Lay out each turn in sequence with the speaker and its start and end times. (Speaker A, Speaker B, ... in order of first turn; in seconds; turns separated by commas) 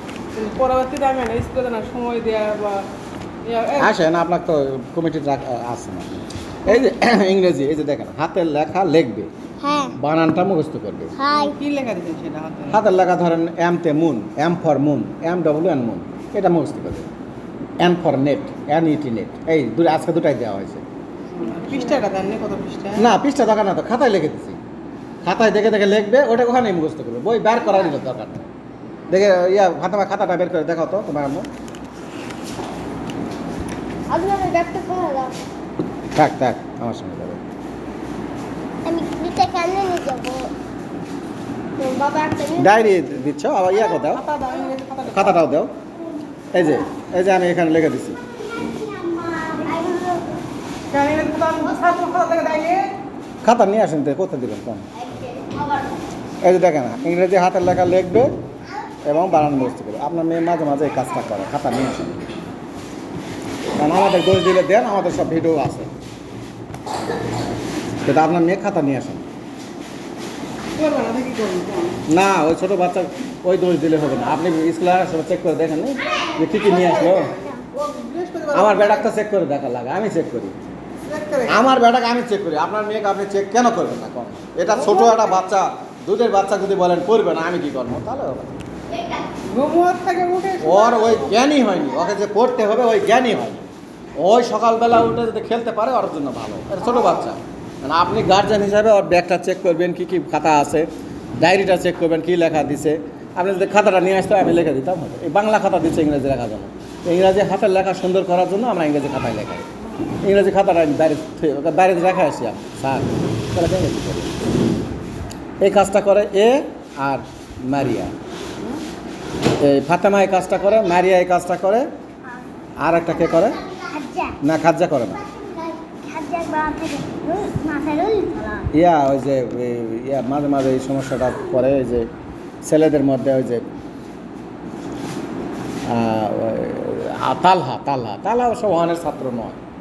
Speaker A: 0.3-2.9, Speaker A: 3.4-4.0, Speaker B: 3.8-9.3, Speaker C: 9.6-9.9, Speaker B: 9.9-11.1, Speaker C: 11.2-11.6, Speaker A: 11.3-12.8, Speaker B: 12.7-17.1, Speaker B: 17.8-20.8, Speaker A: 21.3-23.1, Speaker B: 23.0-24.6, Speaker B: 25.2-28.5, Speaker B: 29.1-31.5, Speaker C: 34.1-35.3, Speaker B: 36.1-37.4, Speaker C: 38.8-40.5, Speaker C: 41.8-42.9, Speaker B: 42.6-44.2, Speaker A: 43.9-45.4, Speaker B: 45.0-45.7, Speaker B: 46.5-48.2, Speaker C: 48.4-50.3, Speaker A: 50.9-52.9, Speaker B: 53.4-54.9, Speaker C: 55.1-55.9, Speaker B: 56.4-58.3, Speaker B: 59.0-62.3, Speaker B: 63.8-65.9, Speaker B: 68.0-69.2, Speaker A: 70.8-72.0, Speaker B: 72.1-77.3, Speaker C: 76.2-77.6, Speaker A: 77.1-79.1, Speaker B: 78.5-80.6, Speaker A: 81.0-81.7, Speaker B: 81.5-88.6, Speaker A: 84.7-85.3, Speaker A: 89.5-91.4, Speaker B: 90.6-100.9, Speaker B: 101.4-109.7, Speaker B: 110.2-114.4, Speaker B: 115.6-118.1, Speaker B: 119.6-121.9, Speaker B: 122.8-123.6, Speaker C: 123.2-124.4, Speaker B: 124.4-125.2, Speaker C: 125.2-128.7, Speaker B: 128.7-132.1, Speaker B: 132.6-133.7, Speaker B: 135.8-139.6